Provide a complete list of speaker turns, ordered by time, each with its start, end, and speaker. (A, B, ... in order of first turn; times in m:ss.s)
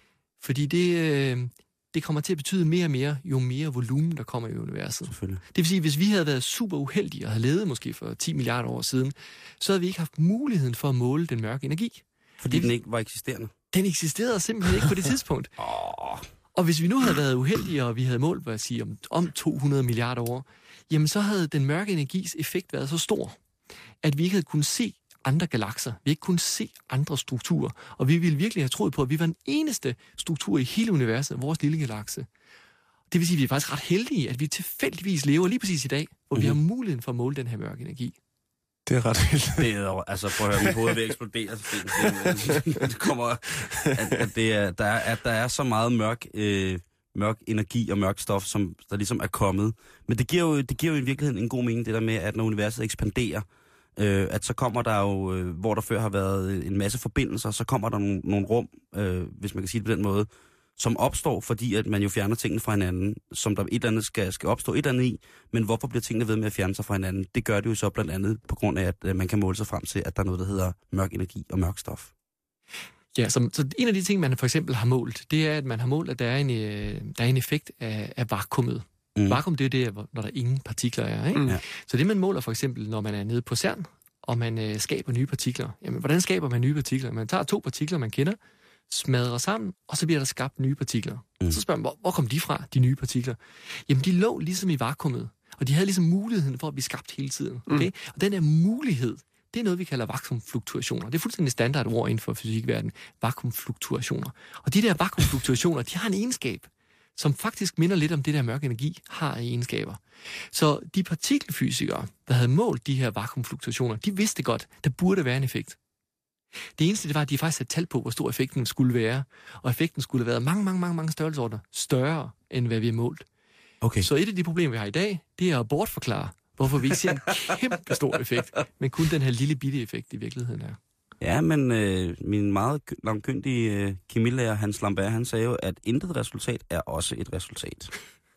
0:00.4-0:12.7 A
0:05.1-0:05.4 B
0:12.4-0:13.5 B
0:13.7-0:15.5 A
0:15.6-0:16.3 B
0:16.6-0:23.4 A
0:24.0-0:32.3 A
0:33.1-0:38.2 A
0:38.9-0:39.7 C
0:39.6-0:53.4 B
0:40.5-0:41.0 C
0:41.9-0:42.9 C
0:43.6-0:44.2 C
0:54.0-1:12.1 B
1:13.2-1:28.4 A
1:28.9-1:55.8 A
1:56.8-2:03.3 A
2:03.8-2:04.1 B
2:04.0-2:10.8 A
2:11.2-2:18.0 B